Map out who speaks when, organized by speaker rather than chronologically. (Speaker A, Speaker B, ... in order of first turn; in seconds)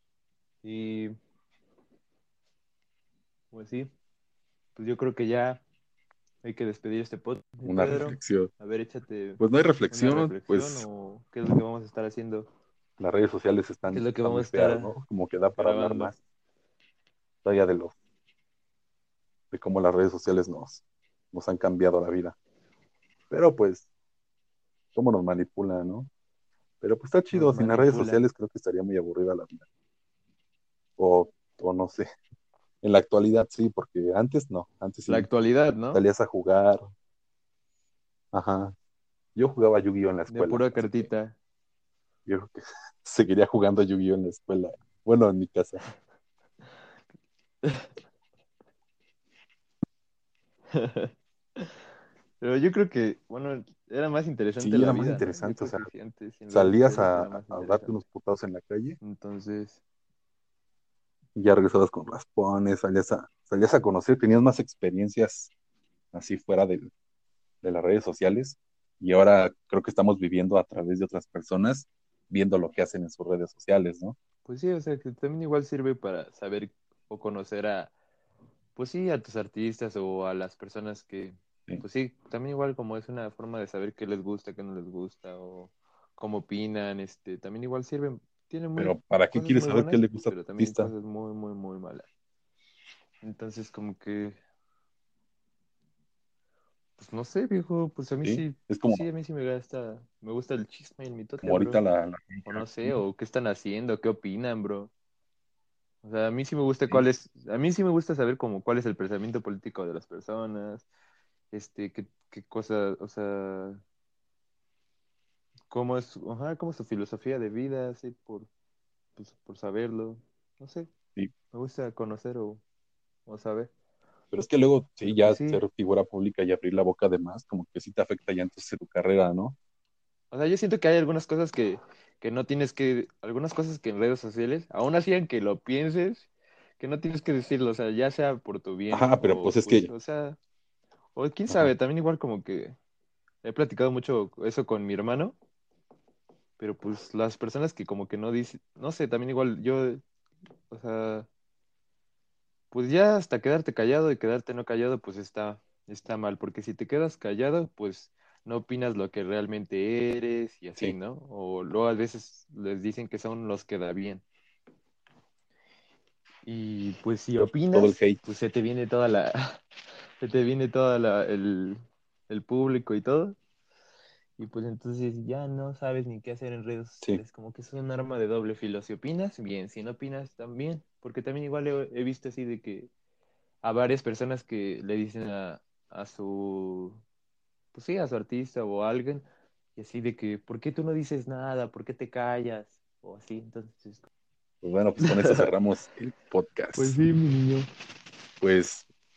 Speaker A: 0.6-1.1, 3.5-3.9, 4.8-5.6, 6.4-12.5, 13.9-14.9, 15.6-16.1, 27.3-28.2, 35.1-36.0, 40.3-41.4, 47.6-47.9, 50.7-51.7, 52.4-58.0, 59.0-59.8, 74.5-77.9, 78.8-92.1, 93.2-94.4, 97.0-101.8, 102.5-104.9, 106.0-110.9, 111.5-113.8, 115.7-118.5, 119.2-120.9, 121.5-122.6, 123.3-123.7, 125.1-125.6, 130.3-136.3, 136.8-140.4, 141.1-142.8, 143.4-145.4, 146.6-150.0, 150.7-151.3, 152.7-164.2, 166.4-169.6, 170.2-173.4, 174.4-182.9, 183.6-187.0, 187.7-194.1, 195.0-195.5, 196.7-197.7
Speaker B: 7.6-8.5, 9.4-10.9, 13.0-16.2, 17.4-17.9, 19.5-22.4, 23.3-23.9, 24.9-26.1, 26.8-29.7, 31.0-32.1, 32.8-35.3, 35.9-36.9, 38.3-38.7, 39.4-41.1, 42.3-45.8, 54.6-55.9, 56.5-59.0, 61.4-65.5, 66.1-66.9, 67.6-74.2, 88.8-90.9, 98.2-99.1, 101.4-103.0, 124.3-129.6, 138.9-139.9, 167.7-168.2, 194.6-197.0, 198.4-198.9